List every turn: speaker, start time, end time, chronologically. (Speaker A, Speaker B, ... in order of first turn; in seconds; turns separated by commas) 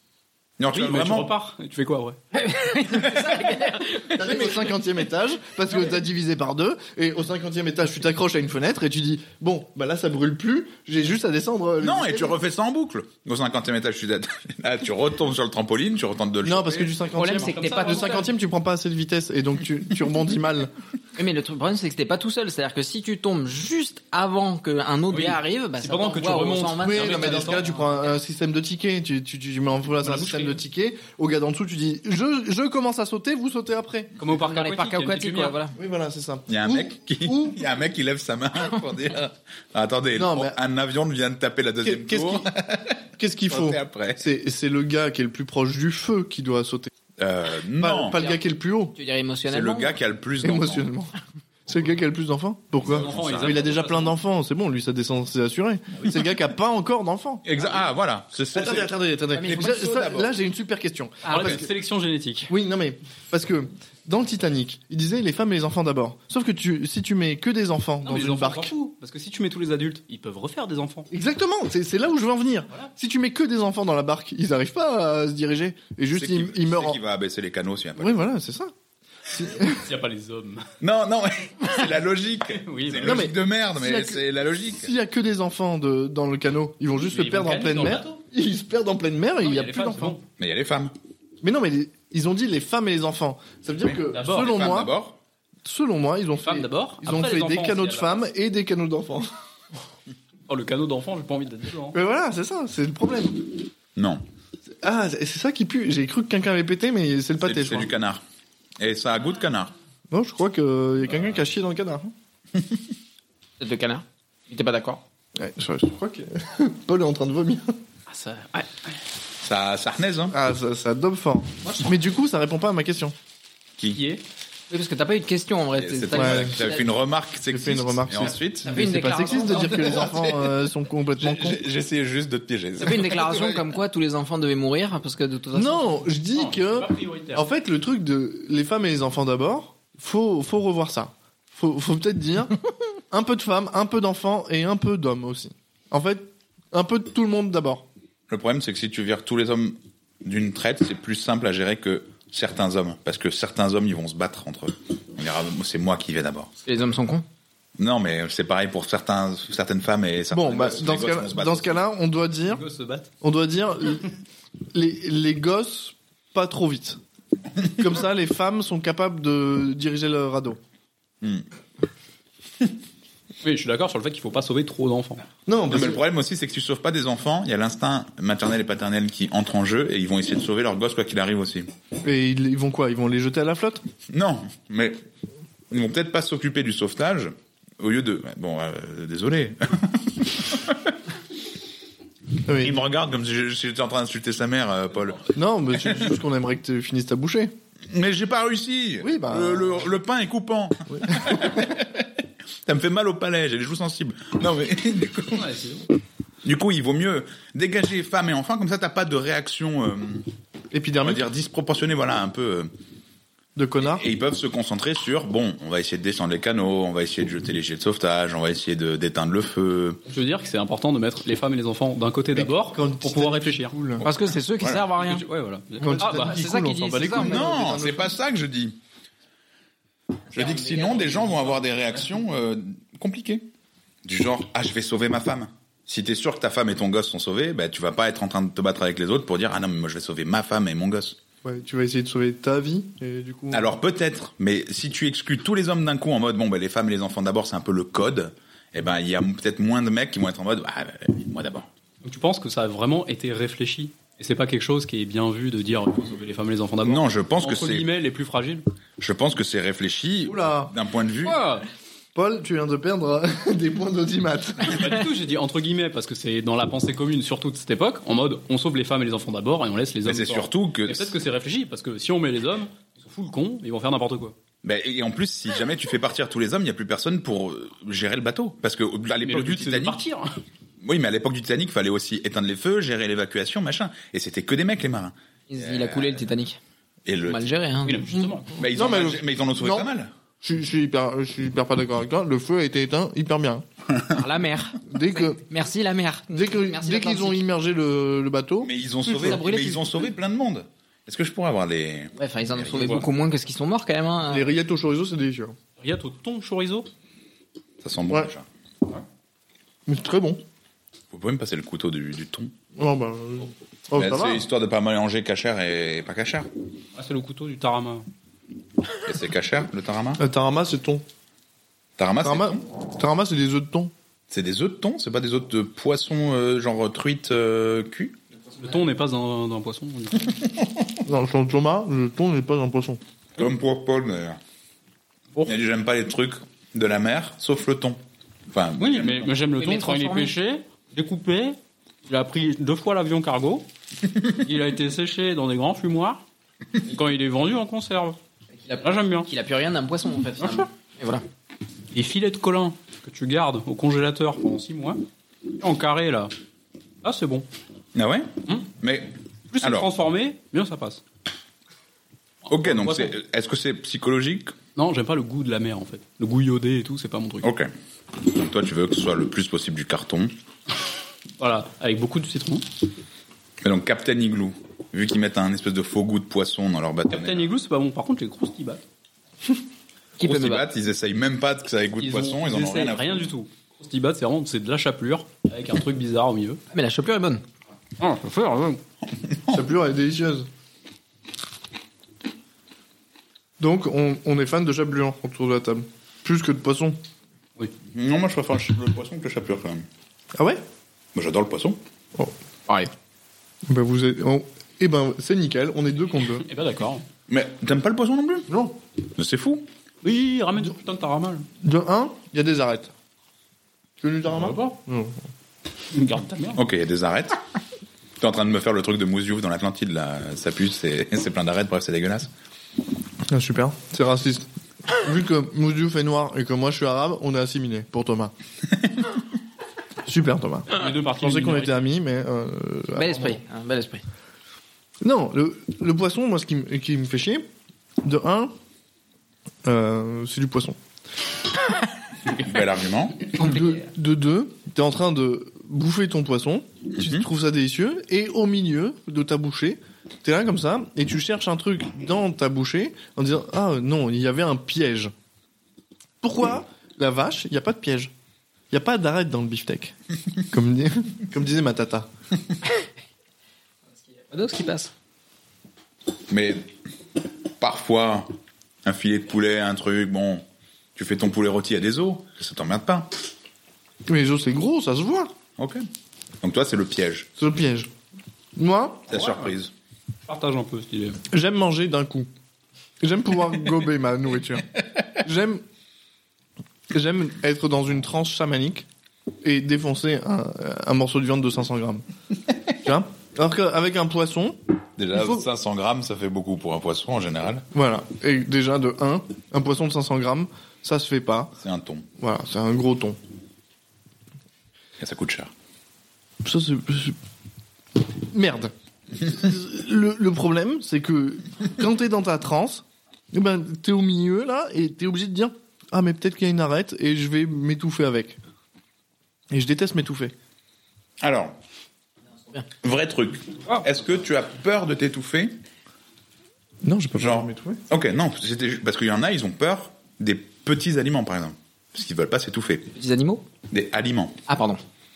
Speaker A: 0.6-1.3, Speaker B: 0.7-2.2, Speaker C: 2.3-4.7, Speaker D: 4.1-12.4, Speaker A: 11.8-16.9, Speaker D: 16.4-20.7, Speaker C: 17.1-18.3, Speaker B: 17.2-18.3, Speaker C: 21.2-27.8, Speaker B: 25.1-27.7, Speaker D: 26.8-34.1, Speaker B: 30.0-30.6, Speaker B: 34.2-35.6, Speaker C: 34.2-35.8, Speaker D: 35.8-37.6, Speaker A: 36.5-44.3, Speaker D: 40.1-40.6, Speaker D: 41.8-42.5, Speaker D: 43.2-46.9, Speaker A: 47.2-48.2, Speaker D: 47.8-49.0, Speaker C: 49.0-50.0, Speaker A: 49.5-50.9, Speaker D: 50.4-51.1, Speaker D: 51.7-57.5, Speaker A: 52.8-53.8, Speaker B: 52.9-54.2, Speaker A: 57.5-60.3, Speaker D: 58.5-61.7, Speaker C: 59.3-59.8, Speaker B: 61.2-62.5, Speaker C: 61.3-61.5, Speaker D: 62.5-68.7, Speaker B: 68.0-71.1, Speaker D: 71.1-77.0, Speaker A: 76.1-78.3, Speaker D: 78.0-78.7, Speaker D: 79.3-79.9, Speaker B: 79.7-80.7, Speaker A: 80.8-84.9, Speaker B: 82.6-83.2, Speaker D: 83.0-84.2, Speaker D: 84.8-90.2, Speaker B: 87.0-88.2, Speaker B: 89.4-90.2, Speaker A: 90.4-90.9, Speaker D: 91.4-94.9, Speaker A: 93.8-95.2, Speaker B: 94.1-94.5, Speaker D: 95.6-99.3, Speaker B: 96.4-98.2, Speaker B: 100.5-102.0, Speaker D: 101.9-103.6, Speaker A: 104.0-104.2, Speaker D: 104.8-107.9, Speaker A: 107.4-108.2, Speaker A: 108.8-109.7, Speaker D: 110.1-112.1, Speaker C: 113.6-115.0, Speaker D: 115.4-117.8, Speaker B: 118.1-119.0, Speaker A: 119.4-120.4, Speaker D: 120.3-123.2, Speaker C: 121.7-121.9, Speaker B: 123.9-124.2, Speaker C: 124.7-126.9, Speaker A: 125.8-128.8, Speaker D: 126.1-126.7, Speaker D: 127.5-131.6, Speaker C: 128.7-130.2, Speaker A: 129.6-130.5, Speaker A: 131.2-133.7, Speaker C: 132.8-136.1, Speaker D: 135.5-147.9, Speaker B: 136.3-137.5, Speaker A: 148.3-156.5, Speaker C: 156.7-157.2, Speaker A: 157.8-161.8, Speaker D: 160.3-162.6, Speaker B: 162.5-163.1, Speaker D: 163.2-164.1, Speaker D: 164.7-167.0, Speaker D: 167.7-170.6, Speaker B: 173.4-175.2, Speaker D: 175.5-176.0, Speaker A: 175.7-181.7, Speaker D: 182.0-183.8, Speaker A: 184.1-185.0, Speaker A: 185.7-190.9, Speaker D: 192.4-192.8, Speaker A: 192.6-196.1, Speaker D: 195.3-197.5, Speaker A: 197.9-202.1, Speaker D: 199.0-199.9, Speaker D: 200.9-201.7, Speaker A: 202.7-205.4, Speaker B: 205.3-205.9, Speaker A: 206.4-210.2, Speaker D: 210.7-211.2, Speaker A: 211.0-212.7, Speaker D: 213.6-214.1, Speaker A: 213.8-220.0, Speaker B: 220.1-223.8, Speaker D: 222.3-224.1, Speaker A: 224.0-224.9, Speaker C: 224.0-225.2, Speaker B: 225.0-226.7, Speaker C: 225.8-227.6, Speaker D: 225.8-228.2, Speaker A: 227.1-228.8, Speaker A: 230.3-233.5, Speaker C: 230.3-231.2, Speaker A: 234.1-241.2, Speaker D: 241.4-243.7, Speaker A: 243.5-251.7, Speaker B: 252.0-258.6, Speaker A: 256.8-257.9, Speaker A: 259.0-261.4, Speaker D: 260.3-260.7, Speaker B: 261.2-261.7, Speaker D: 262.1-264.9, Speaker B: 264.6-274.4, Speaker A: 270.1-271.2, Speaker A: 274.6-280.0, Speaker B: 279.2-280.3, Speaker A: 280.8-286.2, Speaker C: 285.5-286.6, Speaker A: 287.1-287.4, Speaker C: 287.3-288.3, Speaker B: 287.9-288.5, Speaker A: 288.6-290.1, Speaker D: 288.7-289.9, Speaker D: 290.4-293.6, Speaker C: 294.1-297.4, Speaker D: 294.9-295.4, Speaker D: 296.3-298.7, Speaker A: 298.6-303.0, Speaker C: 299.1-299.9, Speaker C: 302.2-304.5, Speaker B: 302.8-303.1, Speaker D: 304.3-305.6, Speaker B: 305.8-306.9, Speaker A: 307.8-308.5, Speaker D: 309.9-310.4, Speaker A: 311.1-312.5, Speaker D: 312.8-314.4, Speaker A: 313.9-316.5, Speaker B: 317.0-318.1, Speaker A: 319.0-320.2, Speaker D: 320.2-321.0, Speaker A: 322.0-322.6, Speaker D: 322.2-323.9, Speaker A: 324.3-328.2, Speaker B: 328.6-330.4, Speaker D: 331.1-333.0, Speaker A: 333.4-334.4, Speaker A: 335.5-339.3, Speaker B: 338.8-343.7, Speaker C: 339.6-340.3, Speaker B: 344.3-346.2, Speaker B: 346.8-348.2, Speaker C: 348.6-351.2, Speaker B: 348.8-349.3, Speaker B: 350.4-350.7, Speaker B: 351.9-355.0, Speaker B: 355.6-356.3, Speaker B: 357.0-357.5, Speaker A: 357.9-359.9, Speaker B: 359.5-361.0, Speaker B: 362.5-363.1, Speaker A: 362.5-364.5, Speaker B: 364.8-367.5, Speaker A: 367.4-370.3, Speaker B: 371.4-372.7, Speaker A: 373.6-377.5, Speaker B: 377.1-378.8, Speaker C: 380.2-380.6, Speaker A: 380.2-383.2, Speaker B: 382.0-386.6, Speaker C: 386.7-387.4, Speaker B: 388.0-388.8, Speaker A: 389.3-389.6, Speaker D: 389.5-390.5, Speaker D: 393.6-397.0, Speaker A: 397.9-399.9, Speaker D: 400.4-400.6, Speaker A: 401.1-401.8, Speaker D: 403.7-406.4, Speaker B: 406.4-407.1, Speaker A: 407.3-408.5, Speaker D: 408.5-408.8, Speaker A: 409.2-409.7, Speaker B: 410.0-411.5, Speaker D: 411.6-412.9, Speaker D: 414.0-415.2, Speaker B: 414.3-414.8, Speaker B: 415.9-416.6, Speaker A: 416.6-417.4, Speaker A: 418.2-422.3, Speaker D: 423.3-428.3, Speaker D: 430.1-433.4, Speaker B: 430.7-431.8, Speaker C: 432.9-434.0, Speaker D: 435.0-437.5, Speaker D: 438.0-438.5, Speaker D: 439.6-440.8, Speaker A: 442.3-443.3, Speaker C: 443.4-443.8, Speaker D: 443.4-455.1, Speaker A: 447.0-447.2, Speaker D: 456.2-458.1, Speaker D: 458.7-460.0, Speaker D: 460.5-462.1, Speaker C: 464.3-464.9, Speaker A: 466.3-466.7, Speaker A: 467.6-468.3, Speaker A: 468.8-470.4, Speaker A: 471.0-473.1, Speaker D: 474.1-475.3, Speaker A: 475.6-475.9, Speaker A: 476.4-477.3, Speaker D: 477.4-477.9, Speaker D: 478.6-479.1, Speaker A: 479.1-479.7, Speaker B: 479.1-479.5, Speaker B: 480.3-481.2, Speaker D: 481.3-482.3, Speaker D: 483.0-485.6, Speaker D: 486.9-488.9, Speaker D: 489.4-492.0, Speaker D: 492.8-494.6, Speaker A: 495.0-497.7, Speaker D: 495.1-495.5, Speaker D: 497.7-501.5, Speaker A: 501.6-502.1, Speaker D: 502.2-503.2, Speaker A: 505.0-505.5, Speaker D: 506.4-507.2, Speaker D: 508.3-518.4, Speaker D: 519.5-520.3, Speaker A: 521.2-521.5, Speaker A: 522.8-525.6, Speaker D: 526.8-527.8, Speaker A: 527.2-532.9, Speaker C: 532.9-533.5, Speaker A: 533.7-534.4, Speaker C: 534.5-534.8